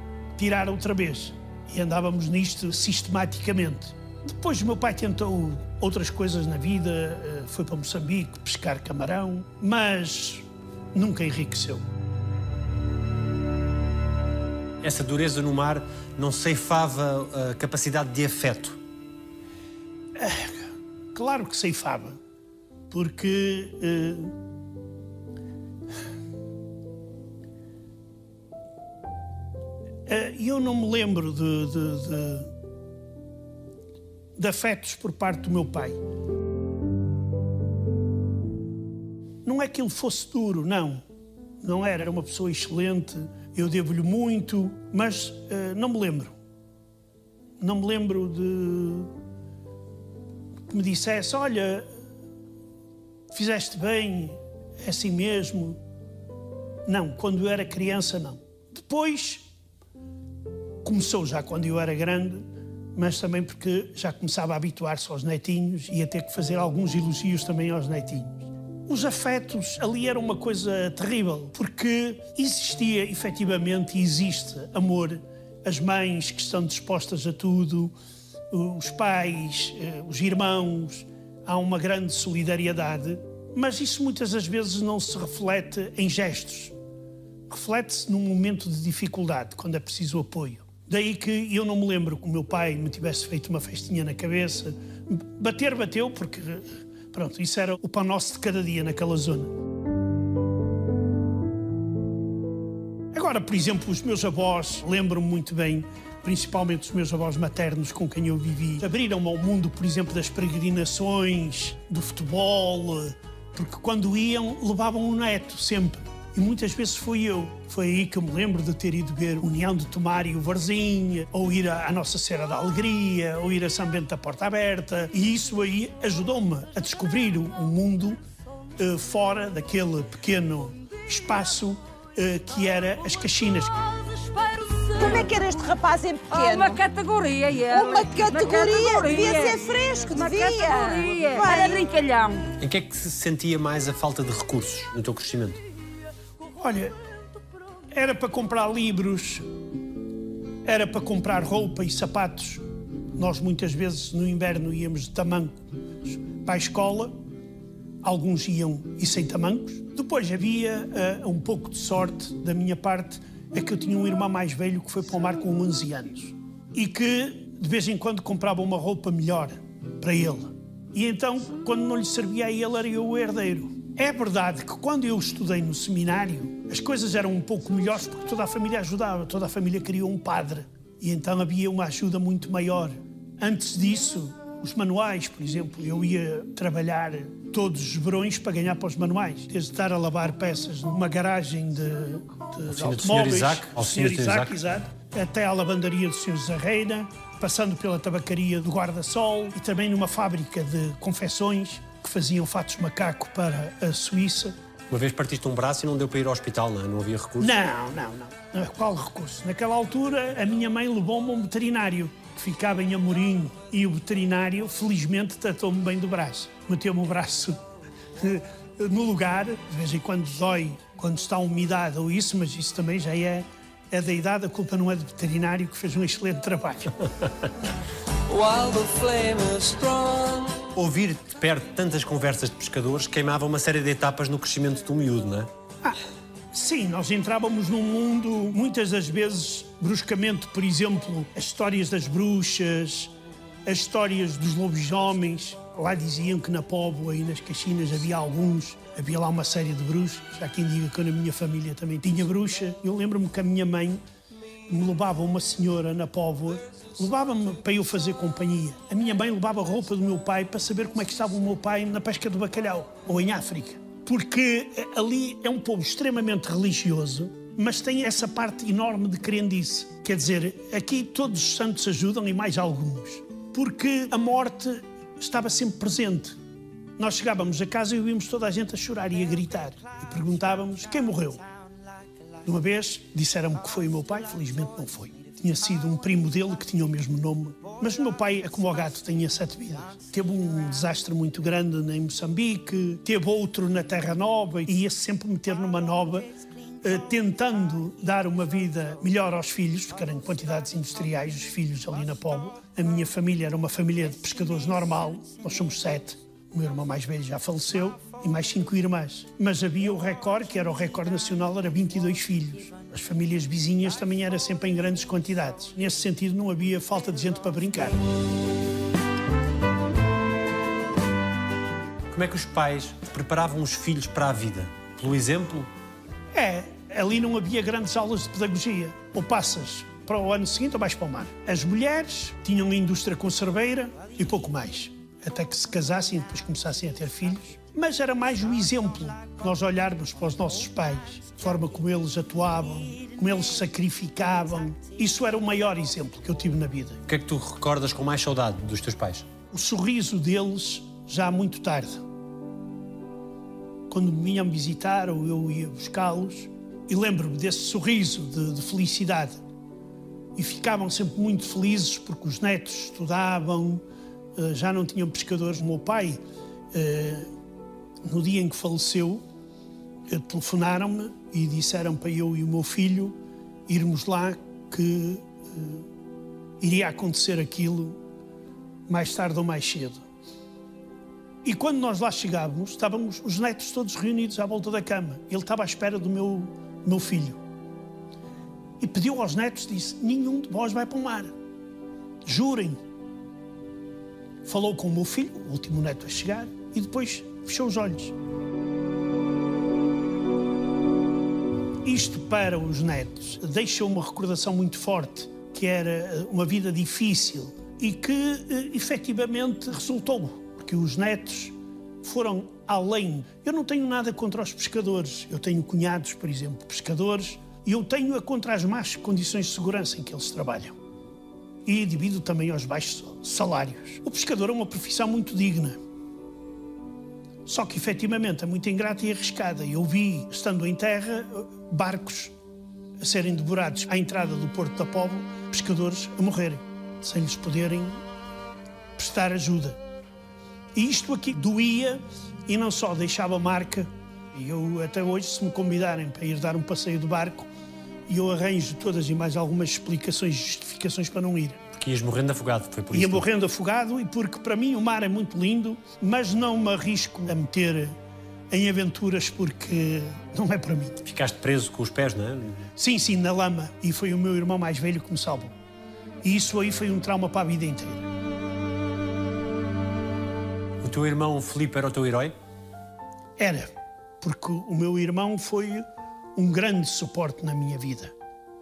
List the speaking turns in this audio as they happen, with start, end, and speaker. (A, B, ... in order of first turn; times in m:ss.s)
0:00.4-0:11.8 A
0:14.8-0:18.8 B
0:20.2-0:22.2 A
0:22.9-0:24.3 A
0:30.1-0:32.5 A
0:34.4-0:36.0 A
0:39.4-0:41.0 A
0:41.6-0:46.4 A
0:47.6-0:49.1 A
0:50.7-0:51.9 A
0:53.3-0:55.8 A
0:56.9-0:59.4 A
1:00.8-1:17.9 A
1:18.5-1:26.7 A
1:27.5-1:39.5 A
1:43.1-2:08.2 A
2:08.8-2:13.7 A
2:14.2-2:15.3 C
2:14.9-2:16.8 D
2:16.3-2:22.4 C
2:17.7-2:22.4 D
2:22.6-2:25.6 B
2:26.6-2:27.0 A
2:27.9-2:29.4 A
2:30.6-2:32.6 A
2:33.1-2:37.2 A
2:38.0-3:24.6 A
3:12.7-3:14.6 B
3:24.9-3:27.6 B
3:27.4-3:37.6 A
3:38.2-3:47.0 A
3:48.3-3:50.7 C
3:50.7-3:55.5 B
3:56.5-4:03.1 A
4:03.7-4:14.0 A
4:14.7-4:36.4 A
4:37.0-4:41.4 A
4:42.4-4:56.3 A
4:56.8-5:18.0 A
5:22.1-5:25.7 B
5:26.3-5:47.0 A
5:47.1-5:49.3 B
5:49.5-5:52.0 A
5:53.9-5:59.4 A
6:00.4-6:03.8 A
6:04.4-6:06.2 A
6:06.7-6:07.3 A
6:08.0-6:09.2 A
6:10.1-6:13.2 A
6:13.7-6:15.8 A
6:16.6-6:18.0 A
6:18.9-6:20.0 A
6:21.4-6:27.4 A
6:28.8-6:31.3 A
6:32.2-6:32.8 A
6:34.4-6:38.2 A
6:41.8-7:00.8 A
7:01.6-7:05.8 A
7:07.4-7:12.3 A
7:13.0-7:18.0 A
7:19.0-7:19.8 A
7:20.8-7:27.5 A
7:28.1-7:31.6 A
7:31.7-7:33.3 B
7:32.9-7:37.9 A
7:38.5-7:41.0 A
7:41.0-7:42.6 B
7:42.8-7:45.6 A
7:46.2-7:48.1 A
7:50.8-7:52.3 B
7:53.4-7:58.1 A